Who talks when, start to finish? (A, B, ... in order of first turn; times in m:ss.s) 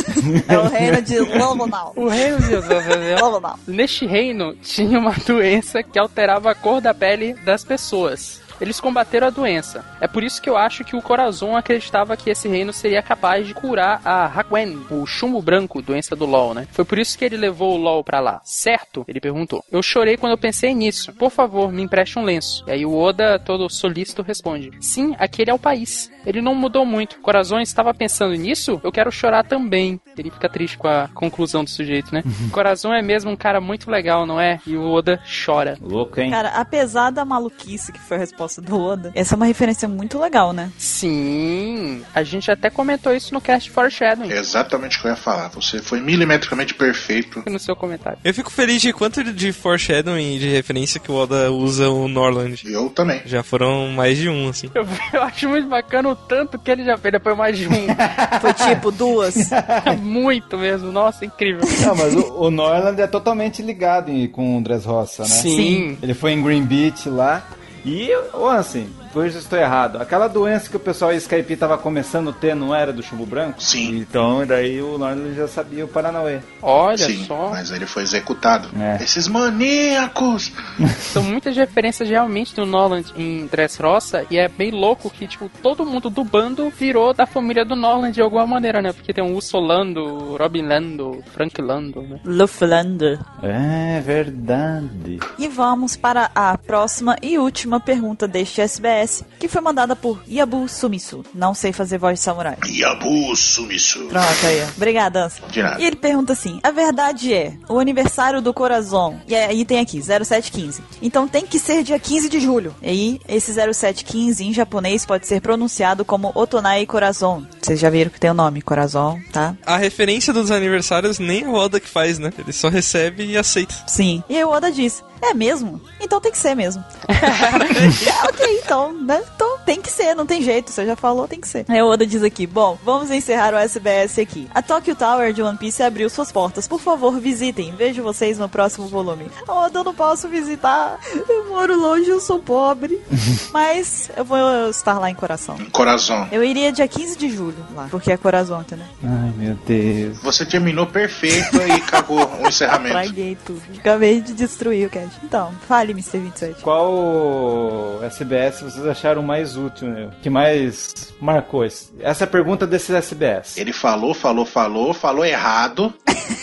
0:00.2-0:01.6 A
0:00.4-0:02.0 B
0:02.0-0:35.8 C
0:03.1-0:03.6 B
0:35.8-0:36.4 A
0:36.3-0:40.7 B
0:40.8-0:44.4 C
0:44.3-0:47.5 D
0:47.4-0:48.2 C
0:48.2-0:52.7 E
0:52.6-0:53.2 D
0:53.2-0:54.7 E
0:54.7-0:58.0 C
0:57.8-1:00.0 A
0:58.4-0:59.5 B
0:59.8-1:02.1 C
1:01.7-1:16.5 A
1:05.2-1:06.0 C
1:05.5-1:05.9 B
1:13.6-1:14.0 D
1:16.6-1:17.6 C
1:16.9-1:20.5 D
1:18.7-1:19.0 A
1:20.8-1:21.1 A
1:21.1-1:32.2 C
1:32.2-1:33.2 B
1:33.4-1:35.2 A
1:35.4-1:42.6 B
1:42.6-1:44.2 D
1:44.1-1:59.6 B
1:45.5-1:45.8 D
1:59.7-2:03.8 E
2:03.9-2:06.9 B
2:07.1-2:07.8 C
2:07.6-2:08.1 E
2:08.0-2:25.6 B
2:25.6-2:26.3 D
2:26.3-2:28.9 B
2:29.0-2:30.2 A
2:30.2-2:33.1 D
2:32.7-2:36.6 B
2:36.6-2:43.6 A
2:43.6-2:46.0 D